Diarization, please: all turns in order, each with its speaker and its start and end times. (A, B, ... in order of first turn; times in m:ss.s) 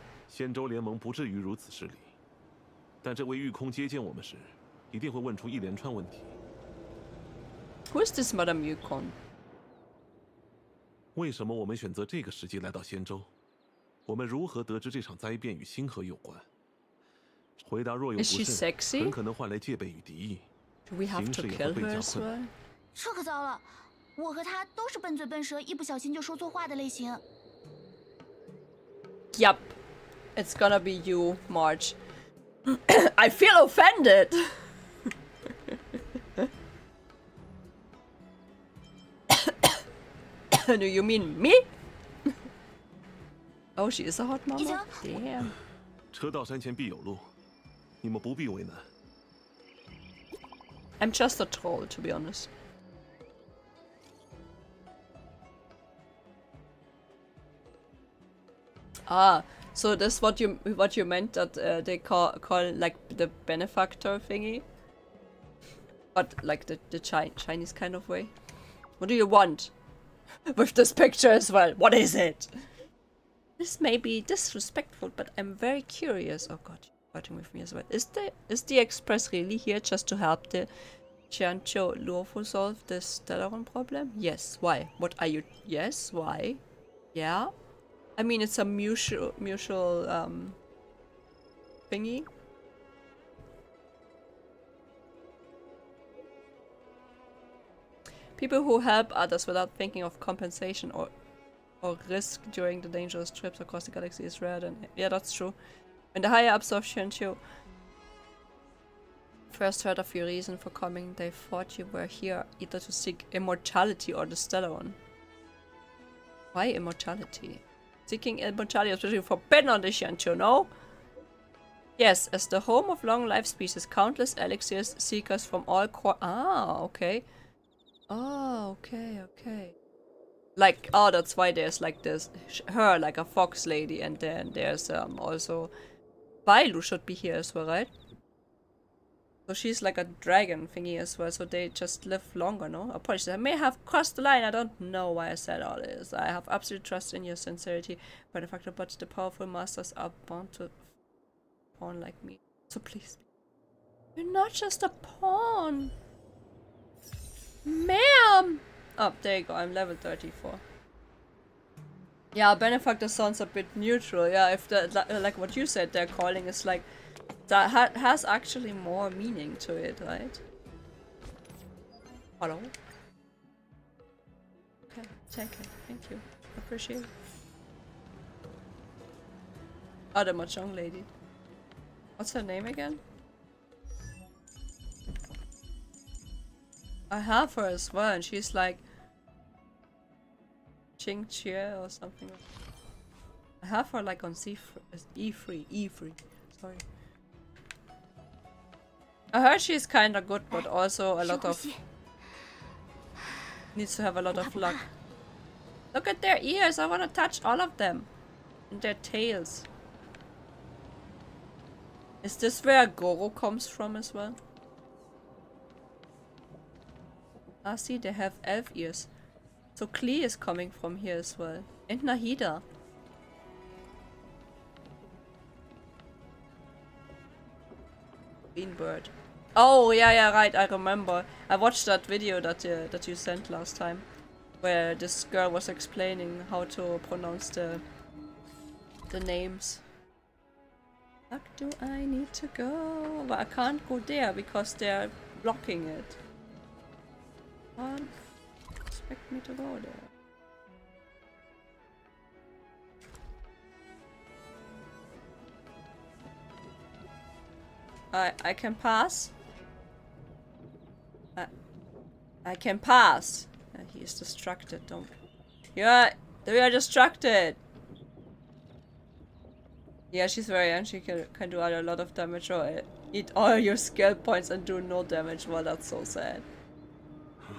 0:00.3-0:02.1 A
0:03.0-0:06.3 A
0:07.9-0:09.2 B
0:11.2-0:13.3 A
0:14.1-0:16.5 A
0:17.6-0:20.5 A
0:18.2-0:19.2 B
0:20.9-0:22.5 B
0:21.1-0:22.3 A
0:23.0-0:27.2 C
0:29.3-0:29.7 B
0:30.4-0:32.0 B
0:32.7-0:34.6 B
0:39.3-0:39.8 B
0:40.5-0:41.6 B
0:43.8-0:45.6 B
0:44.5-0:45.2 C
0:46.1-0:47.3 A
0:48.0-0:48.9 A
0:51.0-0:52.5 B
0:59.1-1:04.6 B
1:06.2-1:08.3 B
1:09.0-1:09.7 B
1:10.5-1:12.5 B
1:13.6-1:20.7 B
1:21.3-1:26.6 B
1:27.1-1:27.5 B
1:28.2-1:30.6 B
1:31.9-1:32.3 B
1:38.4-1:41.1 B
1:41.8-1:45.6 B
1:46.1-1:47.4 B
1:49.5-1:55.0 B
1:56.5-2:00.7 B
2:02.0-2:07.3 B
2:08.1-2:09.8 B
2:10.6-2:15.7 B
2:16.5-2:17.9 B
2:19.5-2:30.8 B
2:31.8-2:33.2 B
2:34.2-2:35.9 B
2:37.6-2:40.6 B
2:42.3-2:46.8 B
2:47.5-2:50.4 B
2:52.4-2:52.7 B
2:54.9-2:57.1 B
3:00.1-3:01.1 B
3:02.2-3:03.0 B
3:07.1-3:08.8 B
3:11.0-3:12.4 B
3:13.6-3:16.8 B
3:19.3-3:21.7 B
3:21.2-3:21.8 C
3:23.8-3:24.9 B
3:24.3-3:24.8 C
3:25.9-3:28.1 B
3:28.7-3:29.7 B
3:32.2-3:34.4 B
3:37.6-3:39.1 B
3:39.8-3:42.6 B
3:48.6-3:54.0 B
3:54.6-3:57.8 B
3:59.1-3:59.8 B
4:01.3-4:06.2 B
4:07.8-4:08.1 B
4:08.9-4:10.1 B
4:18.1-4:19.3 B
4:22.4-4:25.1 B
4:25.8-4:27.6 B
4:30.1-4:36.5 B